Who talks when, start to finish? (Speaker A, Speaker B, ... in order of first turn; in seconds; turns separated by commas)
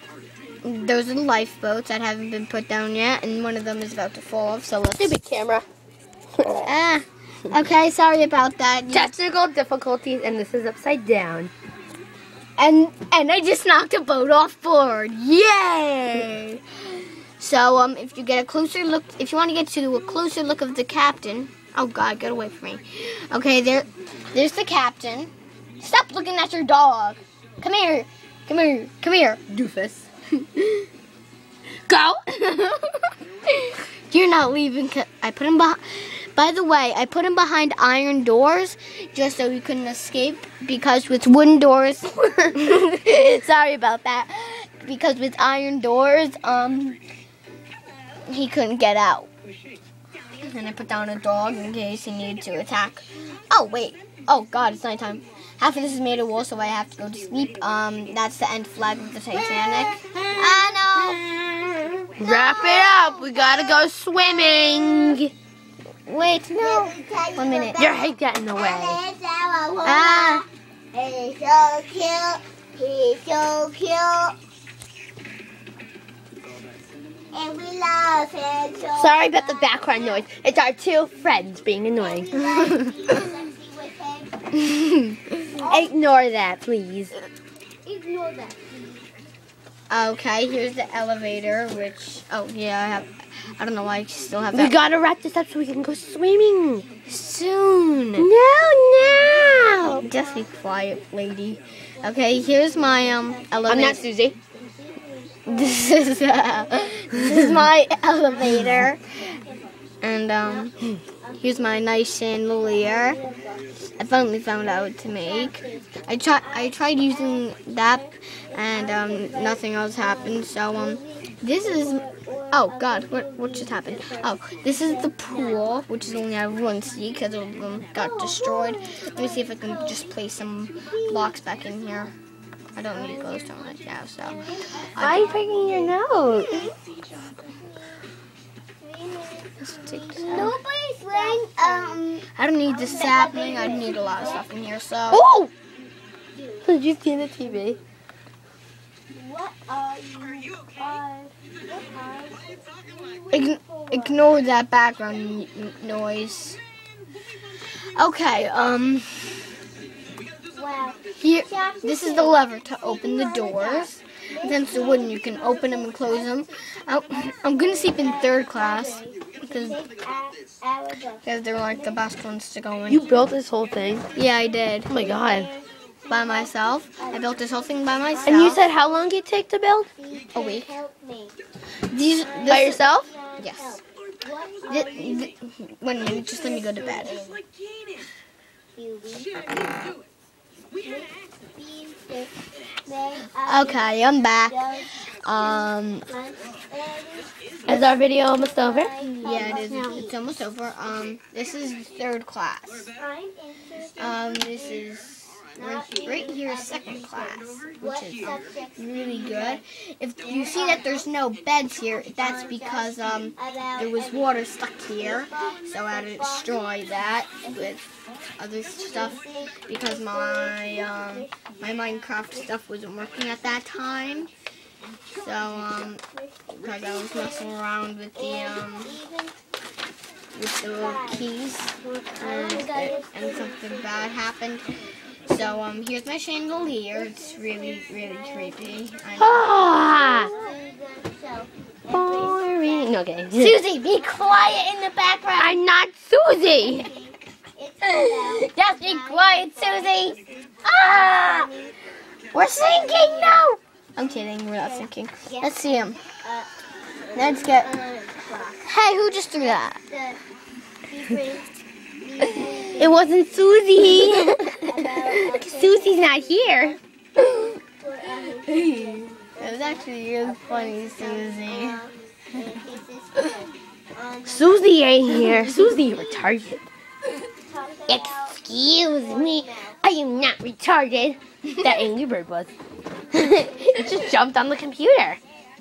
Speaker A: 0.6-5.2, Speaker B: 4.9-5.6, Speaker B: 6.4-6.7, Speaker A: 6.6-9.1, Speaker B: 8.9-11.5, Speaker A: 12.6-29.5, Speaker B: 29.5-30.0, Speaker A: 30.4-30.9, Speaker B: 31.9-32.2, Speaker A: 32.2-32.8, Speaker A: 33.5-47.0, Speaker B: 42.1-42.5, Speaker A: 48.2-49.3, Speaker A: 50.4-61.7, Speaker C: 59.4-61.2, Speaker B: 62.2-65.3, Speaker C: 62.2-63.8, Speaker A: 66.1-67.9, Speaker C: 66.6-74.3, Speaker B: 67.8-69.0, Speaker A: 69.8-70.4, Speaker C: 77.3-80.2, Speaker B: 78.9-82.3, Speaker C: 82.0-84.4, Speaker A: 82.4-83.0, Speaker A: 84.5-85.6, Speaker C: 85.5-85.9, Speaker B: 85.6-87.1, Speaker C: 87.8-89.1, Speaker A: 89.9-94.8, Speaker B: 94.5-96.8, Speaker A: 97.1-98.3, Speaker B: 98.2-100.0, Speaker C: 99.7-100.4, Speaker A: 99.9-104.0, Speaker C: 102.0-106.0, Speaker B: 103.7-104.3, Speaker A: 105.5-109.1, Speaker A: 110.0-110.8, Speaker C: 111.2-111.6, Speaker A: 111.4-113.2, Speaker C: 112.7-113.8, Speaker A: 114.0-132.1, Speaker C: 114.8-117.4, Speaker C: 118.5-125.7, Speaker C: 128.0-130.1, Speaker C: 130.8-131.3, Speaker A: 132.8-135.4, Speaker C: 133.0-133.4, Speaker C: 134.3-136.7, Speaker B: 134.9-136.7, Speaker C: 137.3-137.9, Speaker C: 138.8-144.5, Speaker A: 139.6-140.5, Speaker A: 141.2-145.2, Speaker B: 145.1-145.5, Speaker C: 146.4-146.7, Speaker B: 146.6-147.8, Speaker C: 149.1-154.3, Speaker A: 153.3-156.6, Speaker A: 157.9-159.4, Speaker C: 160.5-166.4, Speaker A: 161.2-169.8, Speaker C: 167.4-172.0, Speaker A: 171.2-173.0, Speaker B: 172.9-174.1, Speaker A: 174.1-174.9, Speaker B: 174.9-175.5, Speaker C: 174.9-178.8, Speaker A: 176.1-178.6, Speaker B: 178.2-179.9, Speaker C: 179.9-181.3, Speaker A: 180.3-180.7, Speaker A: 181.9-182.8, Speaker C: 182.2-185.3, Speaker B: 182.4-183.1, Speaker A: 183.4-183.8, Speaker A: 184.7-187.2, Speaker C: 186.1-187.4, Speaker C: 188.7-189.6, Speaker C: 190.8-193.9, Speaker A: 193.4-194.6, Speaker C: 194.4-194.9, Speaker A: 195.2-196.1, Speaker C: 196.1-200.1, Speaker B: 197.7-198.9, Speaker A: 199.2-202.9, Speaker B: 199.5-200.0, Speaker C: 203.0-204.8, Speaker A: 204.0-217.8, Speaker C: 205.6-209.6, Speaker C: 210.2-211.1, Speaker C: 212.1-216.9, Speaker C: 217.4-217.8, Speaker A: 218.4-224.3, Speaker C: 218.8-221.3, Speaker A: 225.1-226.0, Speaker C: 226.2-227.5, Speaker A: 226.6-229.0, Speaker C: 228.2-229.3, Speaker A: 230.3-234.7, Speaker C: 230.8-231.3, Speaker C: 231.9-234.1, Speaker A: 235.3-240.5, Speaker C: 236.9-238.8, Speaker B: 239.2-240.3, Speaker C: 239.6-243.0, Speaker B: 241.9-243.6, Speaker A: 243.3-245.6, Speaker B: 245.4-246.9, Speaker C: 246.4-251.7, Speaker A: 247.8-251.3, Speaker B: 250.7-251.5, Speaker A: 252.3-253.4, Speaker B: 252.3-253.5, Speaker C: 252.4-253.4, Speaker A: 253.9-256.0, Speaker C: 254.6-256.5, Speaker C: 257.1-258.6, Speaker A: 257.1-257.7, Speaker A: 258.6-259.8, Speaker C: 259.4-260.2, Speaker C: 260.9-263.4, Speaker B: 262.8-264.4, Speaker A: 263.8-265.4, Speaker C: 264.5-266.7, Speaker B: 265.3-266.8, Speaker A: 267.2-267.5, Speaker C: 267.8-274.6, Speaker A: 268.3-271.8, Speaker B: 274.2-276.6, Speaker C: 275.5-275.8, Speaker C: 277.4-279.8, Speaker B: 277.9-282.5, Speaker A: 281.5-281.7, Speaker B: 283.1-285.2, Speaker C: 283.2-284.1